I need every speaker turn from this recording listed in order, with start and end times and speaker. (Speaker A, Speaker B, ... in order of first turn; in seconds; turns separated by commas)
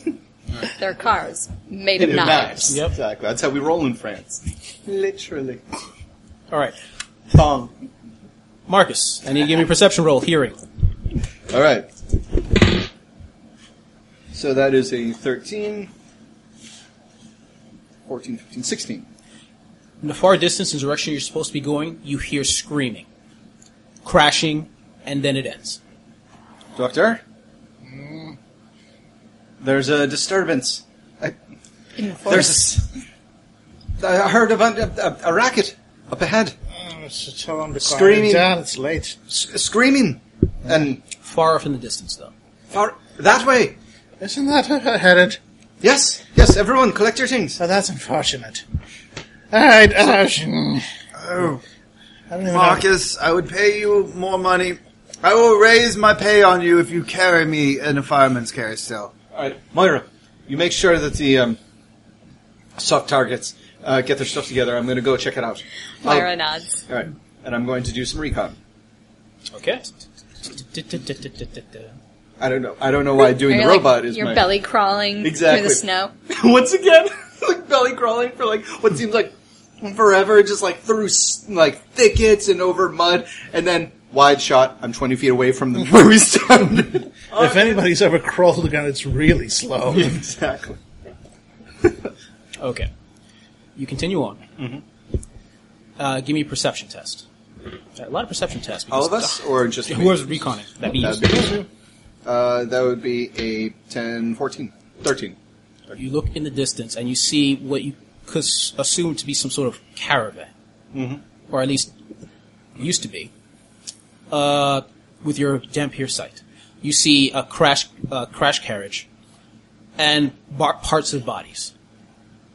Speaker A: 0.8-2.8, Speaker B: 2.0-5.6, Speaker C: 2.7-3.0, Speaker B: 7.3-7.7, Speaker C: 8.7-10.6, Speaker B: 11.5-11.9, Speaker B: 14.3-15.9, Speaker B: 18.1-19.1, Speaker C: 20.0-23.1, Speaker C: 24.1-25.8, Speaker B: 26.8-27.2, Speaker D: 27.9-28.4, Speaker B: 29.6-31.4, Speaker A: 32.0-32.6, Speaker B: 32.2-32.9, Speaker B: 34.0-36.5, Speaker D: 36.8-39.2, Speaker B: 37.8-38.5, Speaker B: 39.3-41.0, Speaker C: 41.2-42.3, Speaker B: 42.7-43.8, Speaker D: 44.2-45.4, Speaker B: 45.8-47.6, Speaker D: 47.6-48.6, Speaker D: 49.5-50.9, Speaker E: 51.2-51.6, Speaker D: 52.3-52.8, Speaker E: 52.5-59.1, Speaker B: 59.3-61.6, Speaker B: 62.8-66.3, Speaker A: 66.0-66.7, Speaker B: 66.9-68.6, Speaker C: 69.5-71.9, Speaker B: 72.4-74.5, Speaker A: 73.3-76.1, Speaker B: 75.2-87.8, Speaker D: 87.3-90.1, Speaker B: 89.9-90.8, Speaker C: 92.6-92.9, Speaker C: 93.8-94.4, Speaker B: 94.6-94.8, Speaker C: 96.0-97.2, Speaker C: 98.0-101.6, Speaker B: 98.9-100.4, Speaker B: 100.9-101.7, Speaker B: 102.2-105.4, Speaker C: 106.0-110.5, Speaker B: 110.9-111.2, Speaker C: 111.5-111.9, Speaker C: 112.8-113.3, Speaker C: 114.3-119.1, Speaker C: 120.0-121.7